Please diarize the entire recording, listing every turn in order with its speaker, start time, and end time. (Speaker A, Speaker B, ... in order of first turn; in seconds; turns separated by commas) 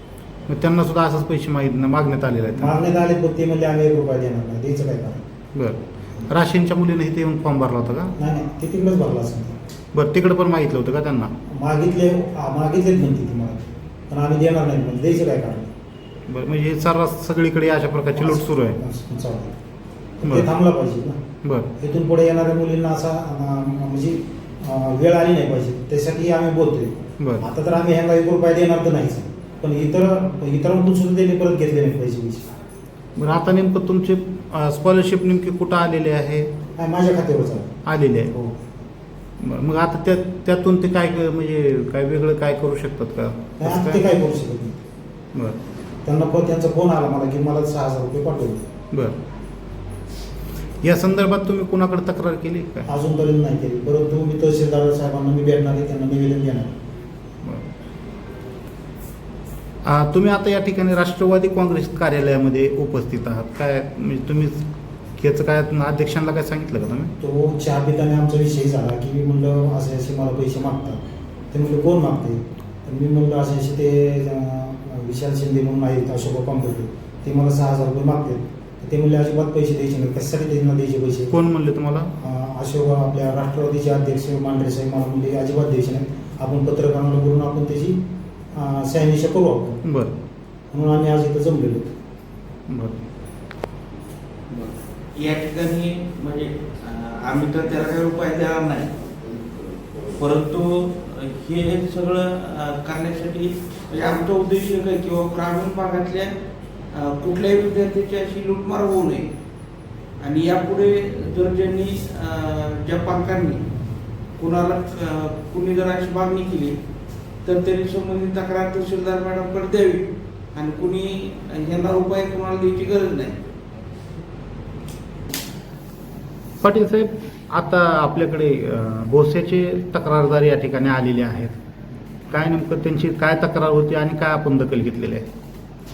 Speaker A: 0.5-2.7, Speaker B: 2.5-5.2, Speaker A: 5.5-8.1, Speaker B: 8.2-9.5, Speaker A: 9.9-11.3, Speaker B: 11.5-15.7, Speaker A: 16.3-18.8, Speaker B: 18.1-19.5, Speaker B: 20.2-21.2, Speaker A: 21.4-21.7, Speaker B: 21.8-32.4, Speaker A: 27.2-27.4, Speaker A: 33.2-36.5, Speaker B: 36.8-37.7, Speaker A: 37.8-38.3, Speaker B: 38.3-38.6, Speaker A: 39.4-44.0, Speaker B: 43.6-44.8, Speaker B: 46.0-48.6, Speaker A: 50.8-52.9, Speaker B: 52.9-56.7, Speaker A: 59.8-64.6, Speaker A: 65.2-67.1, Speaker B: 67.2-71.0, Speaker B: 71.5-81.4, Speaker A: 81.3-82.1, Speaker B: 82.2-88.0, Speaker B: 88.5-89.8, Speaker A: 89.8-90.1, Speaker B: 90.7-91.9, Speaker A: 92.7-93.0, Speaker C: 94.5-99.4, Speaker C: 100.0-106.3, Speaker C: 106.9-109.3, Speaker C: 110.2-113.6, Speaker C: 114.4-116.8, Speaker C: 117.4-123.4, Speaker A: 126.6-131.5, Speaker A: 132.3-135.2